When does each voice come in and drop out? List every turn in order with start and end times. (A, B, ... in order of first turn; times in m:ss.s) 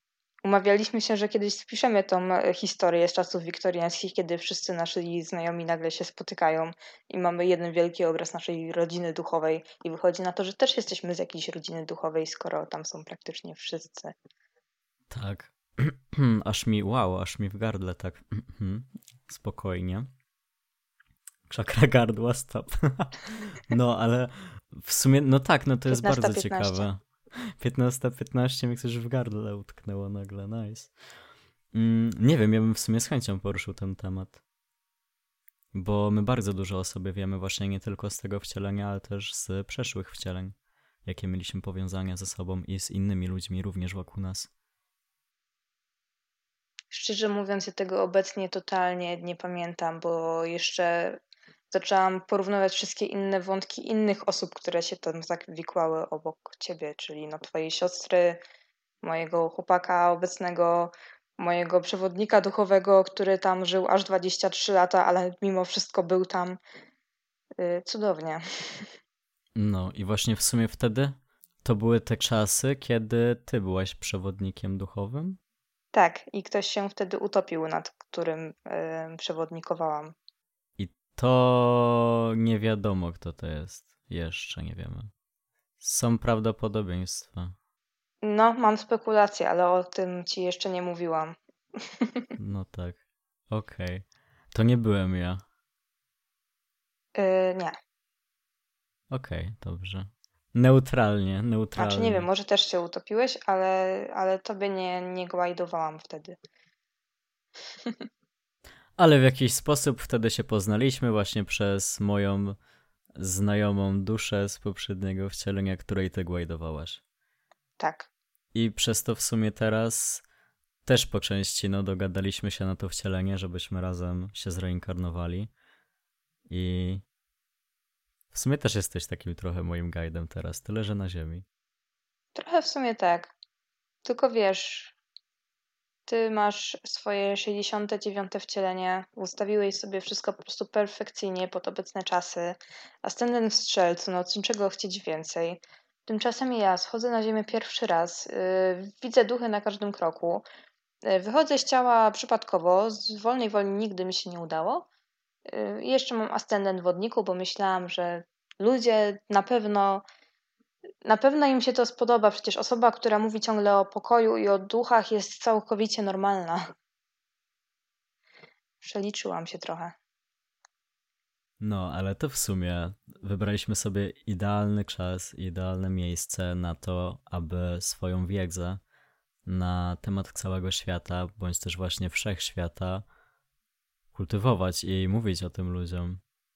0:00.4-0:14.1 A
0:15.1-0:20.1 B
0:21.5-0:30.9 B
0:25.9-0:26.9 A
0:31.7-0:34.4 B
0:35.7-0:44.5 B
0:46.9-0:58.4 A
0:59.0-1:06.6 A
1:07.6-1:08.9 A
1:09.6-1:15.4 B
1:15.9-1:20.1 A
1:20.8-1:25.1 B
1:25.8-1:27.6 B
1:28.2-1:32.3 A
1:32.4-1:33.0 B
1:33.5-1:35.4 B
1:37.2-1:37.8 A
1:39.1-1:42.3 B
1:41.8-1:46.4 A
1:49.0-1:52.6 B
1:53.2-1:57.0 B
1:57.8-1:58.1 A
1:58.5-2:00.2 B
2:00.8-2:05.5 B
2:06.5-2:07.0 B
2:08.3-2:11.4 B
2:12.4-2:13.3 A
2:14.0-2:15.0 A
2:16.1-2:30.5 A
2:31.1-2:34.9 A
2:35.5-2:40.0 A
2:41.0-2:46.7 A
2:48.8-2:50.0 A
2:51.6-2:58.8 B
2:59.5-3:03.1 B
3:04.1-3:06.2 B